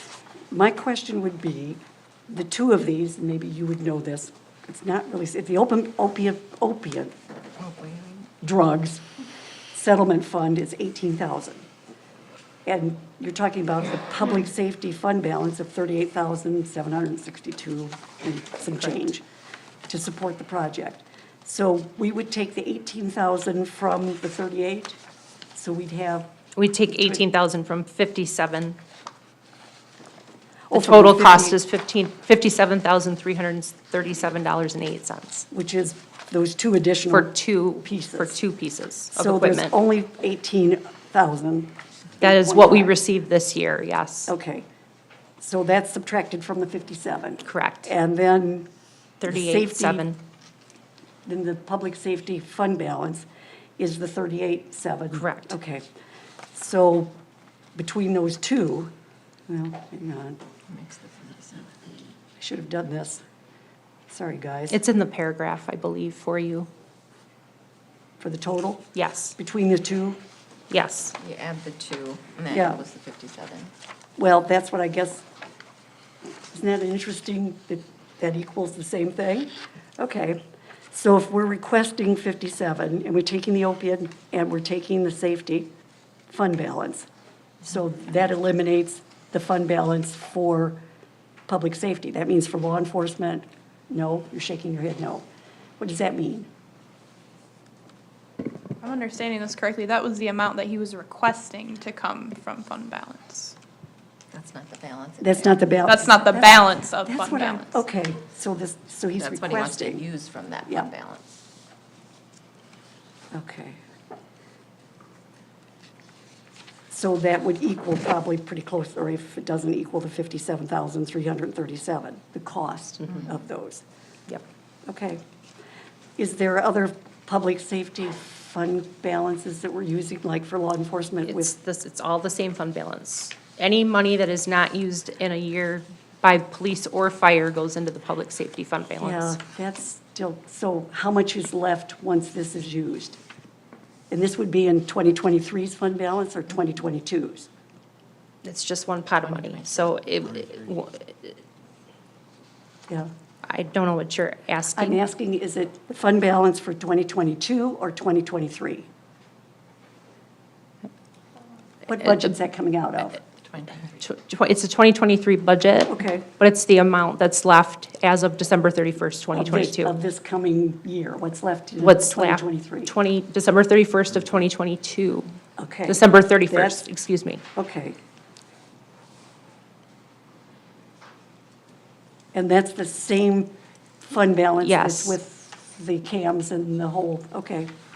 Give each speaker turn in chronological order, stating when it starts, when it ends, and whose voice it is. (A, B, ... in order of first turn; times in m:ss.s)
0:00.5-0:07.1 A
0:07.6-0:08.2 B
0:08.4-0:09.0 A
0:09.7-0:11.6 A
0:12.6-0:19.2 A
0:19.9-0:25.0 A
0:25.5-0:26.3 A
0:26.6-0:28.8 C
0:26.9-0:27.2 A
0:30.7-0:31.6 A
0:30.7-0:35.5 C
0:35.5-0:38.4 A
0:37.1-0:39.7 C
0:39.1-0:42.9 A
0:42.2-0:44.3 C
0:44.3-0:44.6 A
0:45.4-0:48.7 A
0:47.4-0:47.9 C
0:49.2-0:50.2 C
0:49.2-0:50.1 A
0:51.2-0:53.2 A
0:53.8-0:55.8 A
0:55.1-0:55.5 C
0:56.5-0:57.1 A
0:57.7-0:58.9 A
0:59.5-1:00.4 A
1:00.7-1:01.7 B
1:02.4-1:03.2 A
1:04.1-1:04.8 A
1:04.7-1:06.7 C
1:08.2-1:10.2 A
1:09.0-1:09.3 C
1:10.7-1:11.2 C
1:11.2-1:13.7 B
1:12.5-1:12.8 A
1:14.2-1:15.2 A
1:16.5-1:25.7 A
1:26.3-1:27.0 A
1:27.6-1:30.8 A
1:31.5-1:35.2 A
1:35.8-1:36.5 A
1:38.8-1:43.5 D
1:44.3-1:45.8 B
1:45.2-1:50.0 A
1:45.8-1:47.8 D
1:49.2-1:51.3 B
1:53.3-1:53.8 A
1:56.9-2:03.8 A
2:04.8-2:05.2 A
2:06.2-2:11.5 A
2:11.2-2:19.3 C
2:19.0-2:23.2 A
2:24.1-2:27.5 A
2:28.4-2:31.4 C
2:29.2-2:30.0 B
2:33.4-2:35.0 C
2:34.7-2:38.9 A
2:41.8-2:43.2 A
2:43.2-2:44.0 B
2:44.0-2:49.9 C
2:45.9-2:46.3 A
2:49.3-2:52.9 A
2:51.8-2:55.3 C
2:55.6-2:56.8 A
2:55.8-2:57.4 C
2:57.6-2:58.0 A
3:02.3-3:03.5 A
3:04.0-3:07.7 A
3:04.6-3:05.2 C